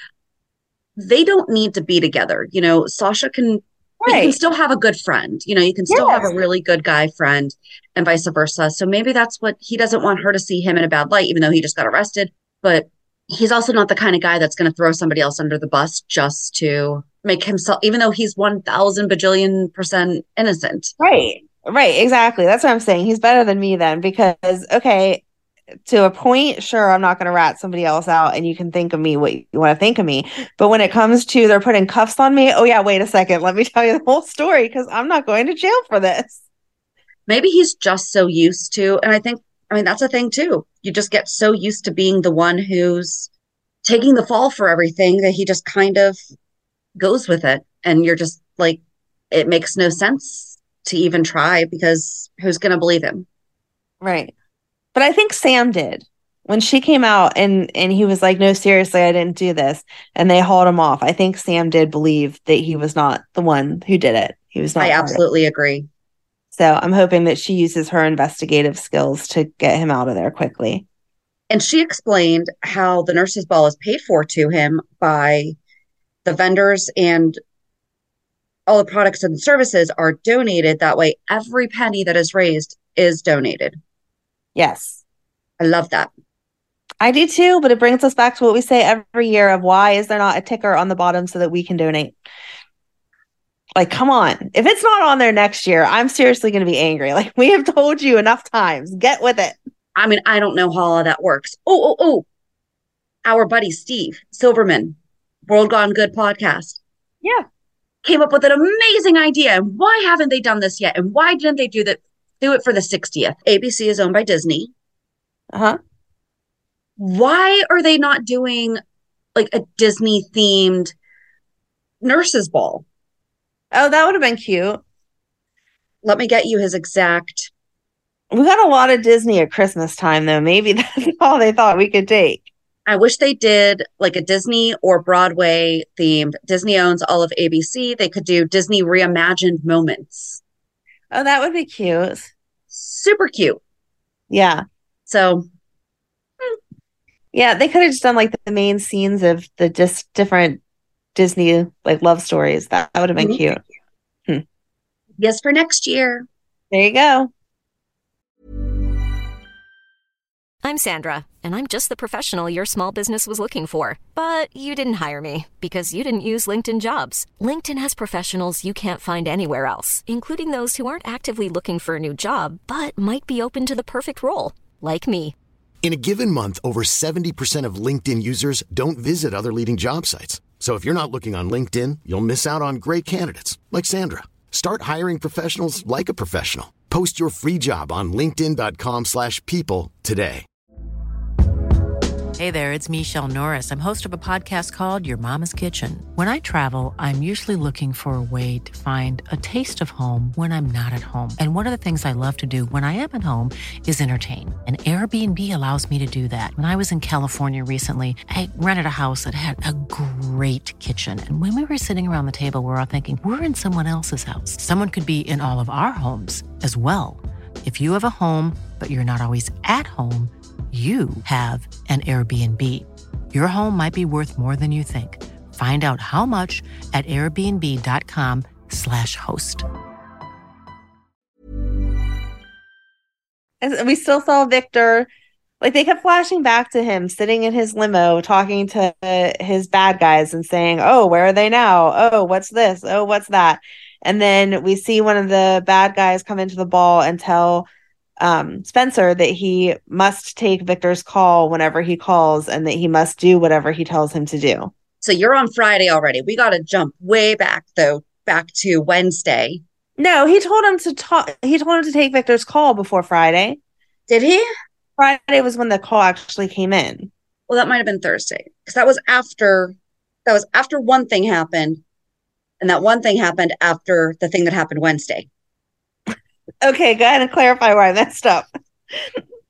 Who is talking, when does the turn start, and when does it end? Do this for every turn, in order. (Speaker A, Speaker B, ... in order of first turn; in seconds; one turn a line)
Speaker A: 1.0-20.9
Speaker B: 4.0-4.4
Speaker B: 5.9-6.3
Speaker B: 21.0-25.2
Speaker B: 25.9-36.4
Speaker A: 37.3-43.3
Speaker A: 43.8-46.2
Speaker A: 47.0-48.8
Speaker A: 49.3-53.3
Speaker B: 54.0-54.3
Speaker B: 55.0-65.2
Speaker A: 64.8-65.9
Speaker B: 66.5-70.8
Speaker A: 71.5-75.5
Speaker A: 76.2-77.4
Speaker A: 78.7-83.8
Speaker B: 84.5-85.0
Speaker A: 85.6-86.1
Speaker B: 87.0-92.2
Speaker B: 93.8-99.6
Speaker A: 100.0-102.3
Speaker A: 103.2-105.0
Speaker A: 105.5-106.8
Speaker A: 108.0-114.7
Speaker B: 115.5-115.8
Speaker A: 117.0-118.8
Speaker A: 119.3-120.9
Speaker A: 122.0-122.8
Speaker B: 123.7-124.8
Speaker A: 126.0-127.5
Speaker B: 128.3-132.5
Speaker A: 132.9-140.4
Speaker B: 141.1-142.3
Speaker A: 142.7-143.6
Speaker B: 144.3-144.6
Speaker A: 145.1-145.5
Speaker B: 147.3-150.6
Speaker B: 151.2-153.6
Speaker A: 155.2-156.3
Speaker B: 156.7-157.3
Speaker C: 160.6-175.4
Speaker D: 175.8-190.5
Speaker E: 192.4-229.7
Speaker B: 233.6-235.1
Speaker B: 235.6-247.7
Speaker B: 248.2-254.7
Speaker A: 255.0-259.6
Speaker B: 260.0-263.6
Speaker A: 264.1-264.5
Speaker B: 265.0-267.1
Speaker A: 267.5-269.8
Speaker A: 270.3-271.8
Speaker A: 272.6-275.3
Speaker B: 276.6-279.1